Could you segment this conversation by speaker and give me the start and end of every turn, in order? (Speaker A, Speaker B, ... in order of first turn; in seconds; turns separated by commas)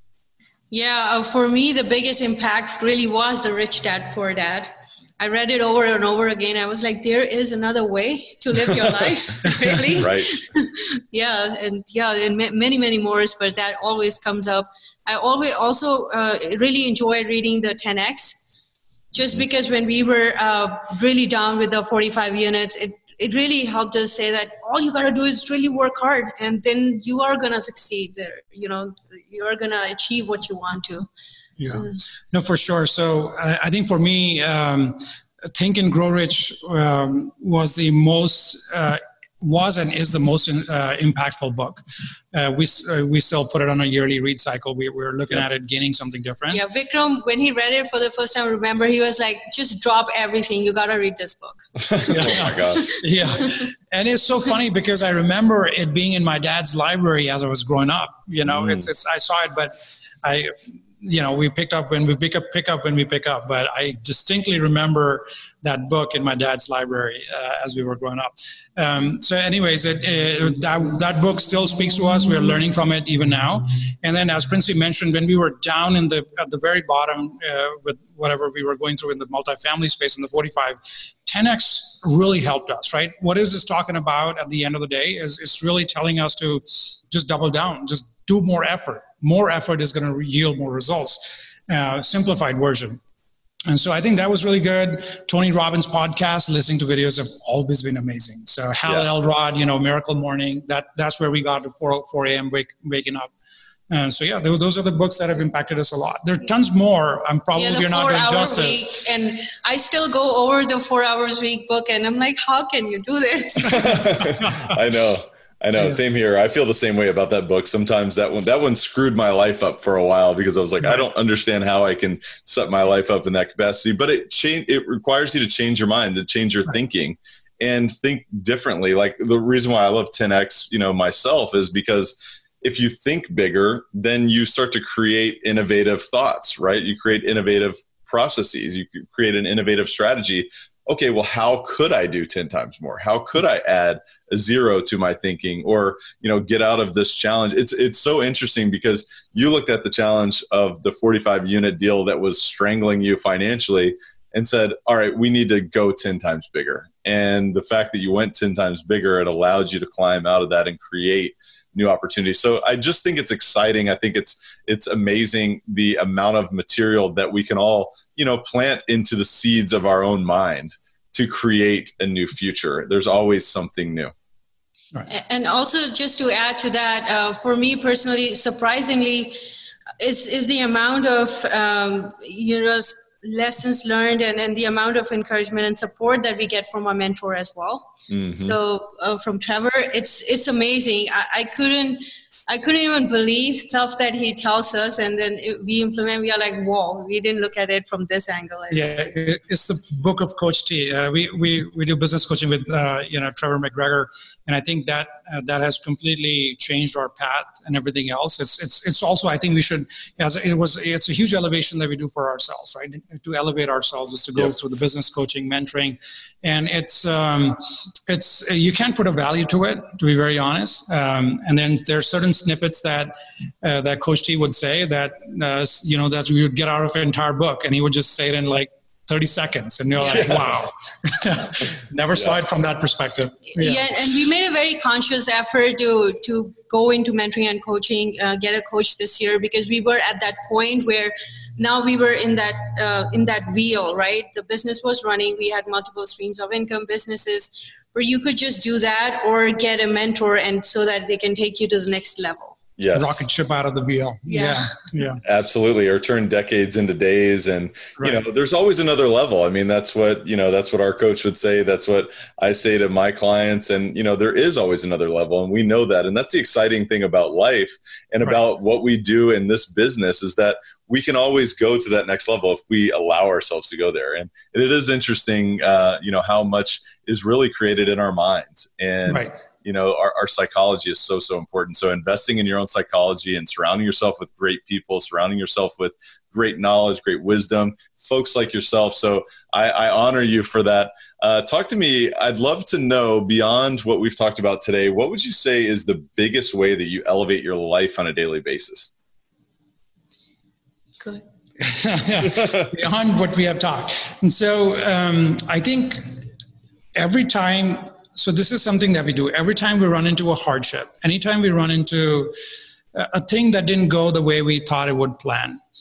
Speaker A: 0.7-18.4, Speaker B: 9.9-10.4, Speaker A: 19.1-31.1, Speaker C: 31.6-46.6, Speaker A: 31.7-32.0, Speaker A: 46.5-51.7, Speaker B: 51.8-52.9, Speaker C: 52.0-93.0, Speaker A: 52.2-52.9, Speaker B: 58.5-58.9, Speaker C: 93.7-103.3, Speaker C: 103.9-108.9, Speaker A: 107.5-114.0, Speaker B: 113.6-174.1, Speaker C: 114.2-114.7, Speaker A: 175.1-179.4, Speaker A: 180.0-199.0, Speaker B: 188.1-188.6, Speaker C: 198.7-233.8, Speaker B: 230.1-230.5, Speaker A: 233.5-252.6, Speaker B: 252.8-253.2, Speaker C: 252.9-255.2, Speaker A: 254.3-254.7, Speaker B: 255.2-298.9, Speaker C: 279.1-279.3, Speaker C: 301.6-306.2, Speaker C: 307.0-312.4, Speaker C: 312.9-315.6